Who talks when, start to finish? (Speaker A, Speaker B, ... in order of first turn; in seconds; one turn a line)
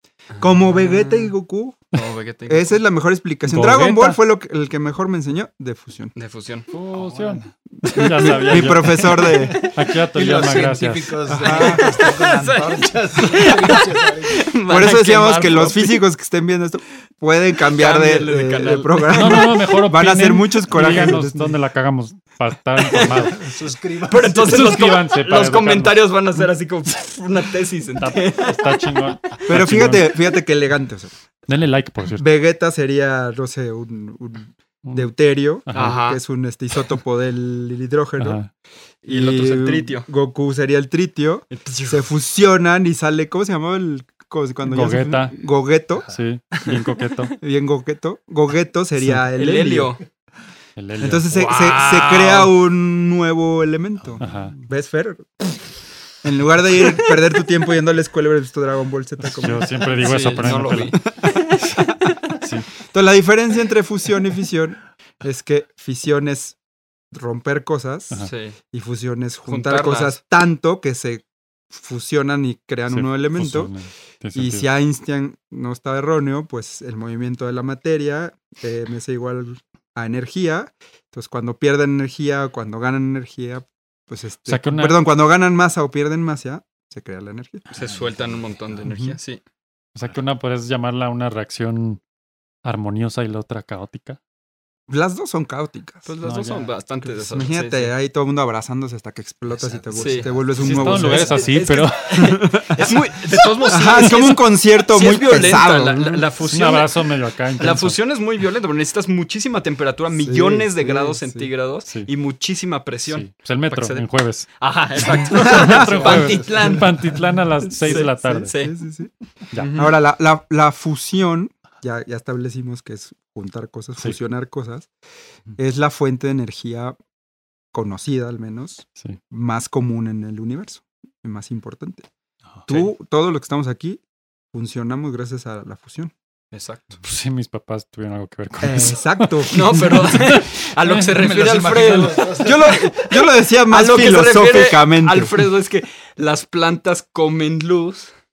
Speaker A: 0.4-1.9
Speaker B: 0.7-1.3
Speaker B: 1.9-2.8
Speaker A: 2.5-6.1
Speaker C: 3.5-4.2
Speaker B: 6.2-6.7
Speaker C: 6.7-11.2
Speaker D: 6.9-7.5
Speaker A: 7.8-9.6
Speaker D: 8.3-14.5
Speaker A: 11.3-11.9
Speaker B: 11.4-16.0
Speaker A: 14.7-21.6
Speaker B: 17.7-19.5
Speaker C: 19.1-23.5
Speaker B: 22.8-23.3
Speaker D: 23.2-24.5
Speaker B: 24.1-29.0
Speaker C: 24.3-26.0
Speaker C: 28.0-30.1
Speaker A: 29.5-31.1
Speaker C: 31.5-32.3
Speaker A: 32.2-38.4
Speaker C: 35.7-36.0
Speaker B: 35.7-36.2
Speaker C: 38.2-38.5
Speaker B: 39.0-40.1
Speaker A: 39.1-46.1
Speaker B: 41.5-42.0
Speaker C: 44.7-45.3
Speaker C: 46.1-47.3
Speaker A: 47.4-50.0
Speaker B: 49.4-50.0
Speaker C: 50.8-51.5
Speaker A: 51.0-55.6
Speaker B: 51.3-52.5
Speaker D: 54.1-54.5
Speaker C: 54.2-54.5
Speaker A: 56.2-61.3
Speaker C: 59.2-61.0
Speaker B: 60.0-61.7
Speaker C: 62.4-62.7
Speaker A: 62.9-66.6
Speaker A: 67.1-73.7
Speaker B: 68.2-68.6
Speaker B: 69.5-70.2
Speaker C: 72.9-74.7
Speaker A: 74.3-87.6
Speaker C: 84.5-85.0
Speaker B: 87.7-89.4
Speaker D: 87.8-88.8
Speaker A: 88.9-89.2
Speaker C: 90.0-92.0
Speaker C: 92.7-94.2
Speaker A: 94.9-96.1
Speaker B: 96.1-97.9
Speaker C: 96.2-96.7
Speaker A: 97.1-103.0
Speaker D: 99.5-101.0
Speaker B: 99.9-107.0
Speaker C: 100.6-102.4
Speaker A: 103.6-106.2
Speaker C: 106.4-108.0
Speaker B: 107.6-116.9
Speaker A: 110.2-111.5
Speaker C: 113.1-114.5
Speaker C: 115.1-118.5
Speaker A: 115.4-116.3
Speaker B: 117.8-118.8
Speaker A: 117.8-119.1
Speaker B: 119.6-119.9
Speaker A: 119.7-124.9
Speaker A: 125.6-127.0
Speaker A: 127.7-132.1
Speaker A: 132.7-134.0
Speaker A: 134.5-136.1
Speaker B: 136.5-137.0
Speaker C: 137.0-141.2
Speaker A: 138.6-140.1
Speaker B: 139.5-143.0
Speaker D: 141.0-143.1
Speaker A: 142.4-145.3
Speaker B: 143.7-148.1